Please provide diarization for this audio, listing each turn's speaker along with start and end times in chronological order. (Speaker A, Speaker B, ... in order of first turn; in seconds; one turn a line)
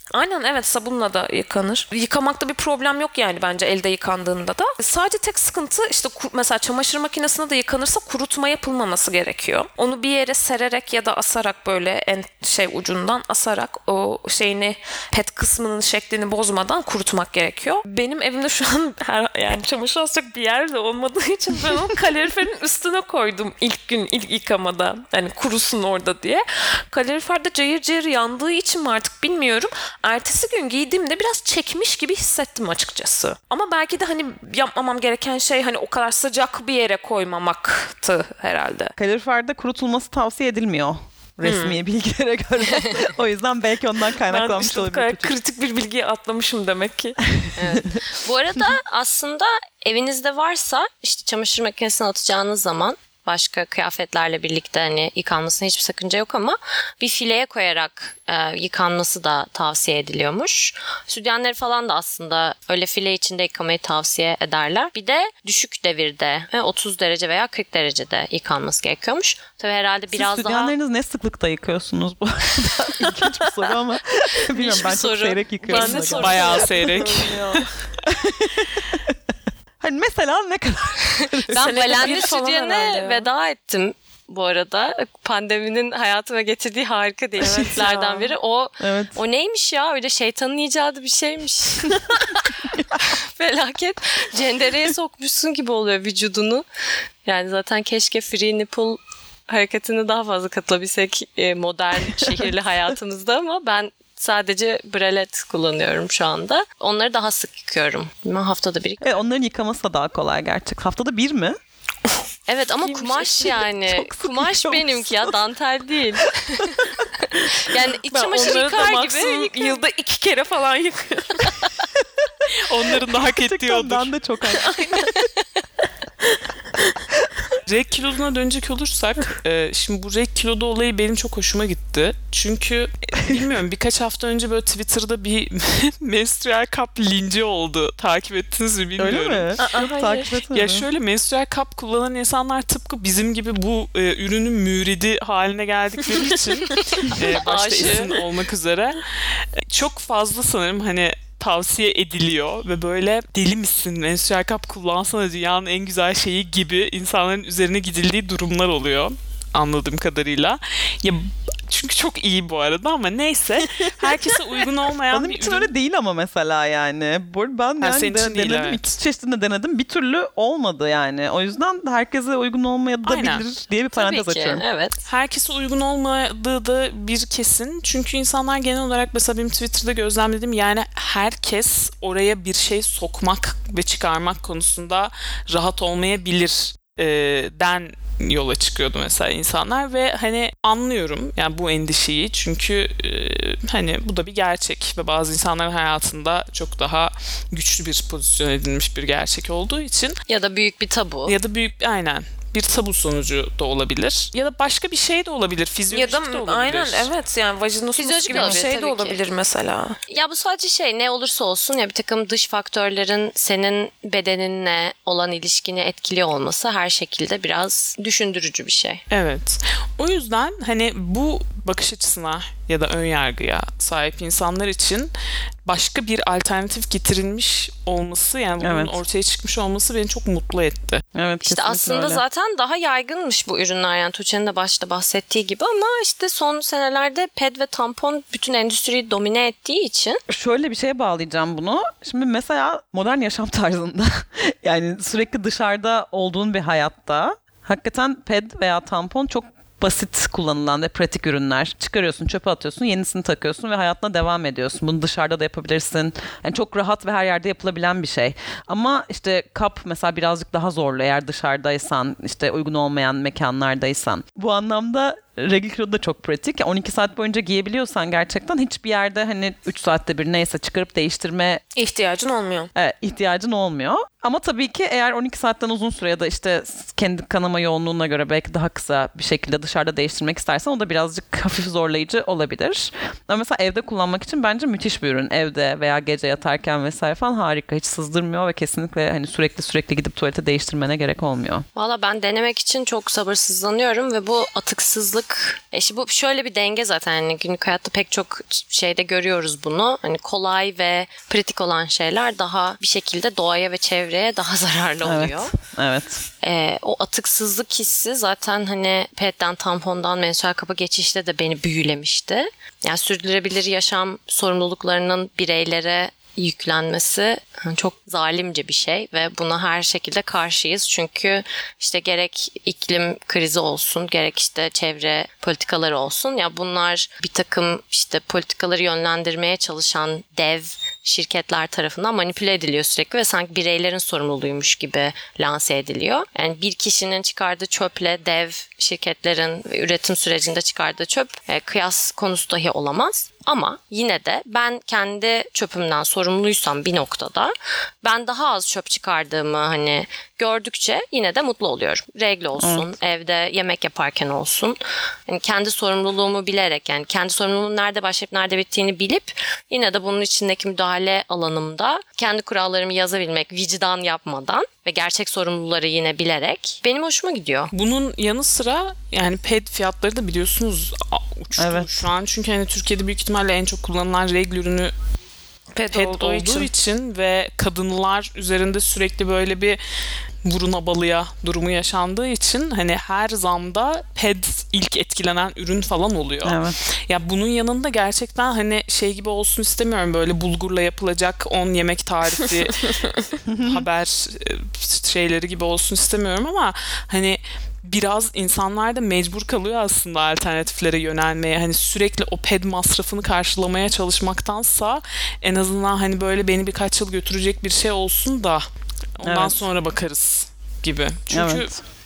Speaker A: 0.1-39.0
Speaker B: 39.0-45.4
Speaker A: 41.4-41.8
Speaker A: 44.2-47.2
Speaker C: 47.6-70.7
Speaker B: 47.7-47.9
Speaker B: 70.1-76.5
Speaker C: 74.5-76.7
Speaker A: 75.7-77.8
Speaker D: 76.2-77.6
Speaker B: 78.0-79.2
Speaker B: 79.8-82.3
Speaker C: 81.0-96.7
Speaker A: 81.5-83.3
Speaker A: 87.4-88.3
Speaker B: 87.4-87.7
Speaker B: 88.8-89.2
Speaker C: 97.2-109.1
Speaker B: 109.0-111.6
Speaker C: 112.5-119.8
Speaker A: 112.8-113.6
Speaker B: 113.5-115.3
Speaker A: 118.1-121.6
Speaker D: 122.6-124.1
Speaker B: 123.3-124.8
Speaker A: 124.5-125.3
Speaker A: 126.3-126.9
Speaker D: 127.7-139.6
Speaker B: 139.0-140.9
Speaker A: 139.6-140.2
Speaker D: 140.5-165.7
Speaker C: 147.4-148.1
Speaker B: 163.7-164.2
Speaker B: 165.1-174.6
Speaker D: 167.8-168.8
Speaker D: 173.1-173.4
Speaker C: 173.9-175.0
Speaker D: 175.1-200.2
Speaker C: 200.3-201.3
Speaker D: 201.3-207.1
Speaker A: 205.9-210.0
Speaker C: 208.0-209.2
Speaker C: 210.1-219.0
Speaker D: 219.1-225.1
Speaker D: 225.7-231.0
Speaker B: 228.6-229.0
Speaker B: 231.1-232.2
Speaker C: 231.4-240.2
Speaker B: 240.3-271.6
Speaker A: 271.8-272.7
Speaker B: 272.8-291.7
Speaker C: 291.8-305.5
Speaker B: 305.0-306.2
Speaker C: 306.4-367.7
Speaker B: 352.6-352.9
Speaker D: 367.7-374.9
Speaker B: 371.6-372.1
Speaker A: 375.7-376.7
Speaker D: 375.9-379.8
Speaker D: 380.4-392.9
Speaker B: 386.4-386.8
Speaker A: 392.9-393.2
Speaker B: 393.5-393.9
Speaker D: 393.6-408.6
Speaker D: 409.2-411.7
Speaker B: 409.2-409.7
Speaker B: 411.3-411.8